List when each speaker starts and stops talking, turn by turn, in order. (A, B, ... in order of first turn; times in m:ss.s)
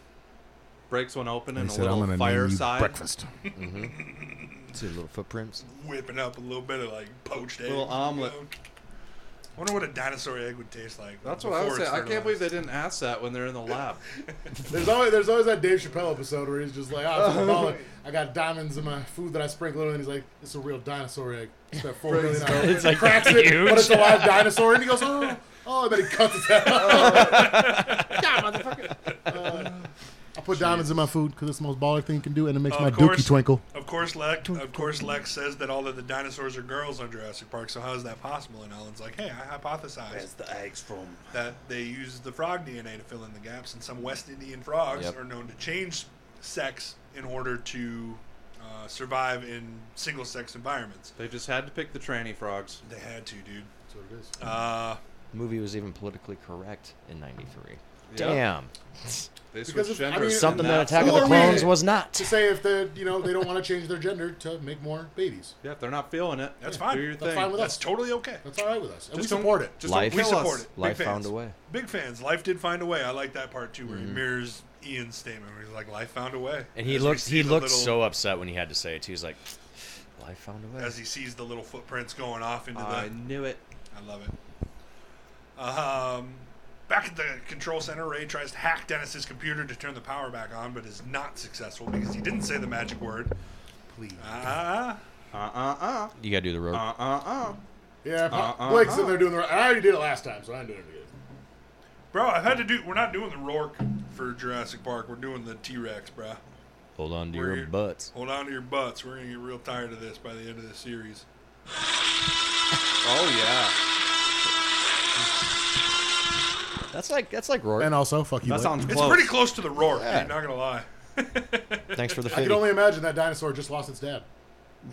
0:00.9-0:03.0 A
0:01.5-0:03.3 B
0:03.4-0:04.7 C
0:03.5-0:04.0 D
0:04.7-0:05.6 D
0:05.6-0:08.5 C
0:07.6-0:08.4 A
0:09.6-0:12.5 C
0:11.2-0:14.0 A
0:14.7-0:27.8 B
0:17.1-0:17.8 A
0:22.1-0:22.8 A
0:22.1-0:24.6 D
0:26.6-0:29.1 C
0:26.7-0:29.0 D
0:29.2-0:29.8 B
0:29.3-0:29.9 A
0:30.3-0:33.6 B
0:30.6-0:30.8 A
0:32.7-0:40.3 C
0:40.1-0:41.3 A
0:41.3-0:51.1 C
0:51.2-0:52.8 A
0:52.8-0:53.7 C
0:53.9-0:54.3 B
0:54.4-0:55.0 C
0:55.3-0:59.2 D
0:58.1-0:58.4 A
0:59.5-1:01.7 A
0:59.6-1:05.5 B
1:00.1-1:02.4 D
1:05.6-1:07.6 A
1:06.6-1:08.4 C
1:06.6-1:09.8 B
1:09.1-1:10.7 A
1:09.8-1:11.5 D
1:09.9-1:18.0 C
1:13.9-1:14.2 D
1:16.7-1:19.4 D
1:20.2-1:21.0 D
1:20.8-1:23.1 C
1:22.7-1:23.6 A
1:23.9-1:24.3 C
1:25.6-1:33.3 C
1:33.9-1:34.6 B
1:34.2-1:35.0 C
1:35.3-1:36.2 A
1:36.2-1:36.9 D
1:36.7-1:37.6 A
1:38.0-1:41.1 B
1:38.3-1:39.2 A
1:42.1-1:46.4 C
1:47.0-1:48.1 D
1:47.3-1:51.2 C
1:53.0-1:53.7 A
1:56.9-1:58.0 D
1:57.8-1:59.1 B
1:58.4-1:59.4 A
1:58.8-2:02.4 C
1:59.8-2:00.4 D
2:01.9-2:02.8 D
2:02.3-2:04.2 B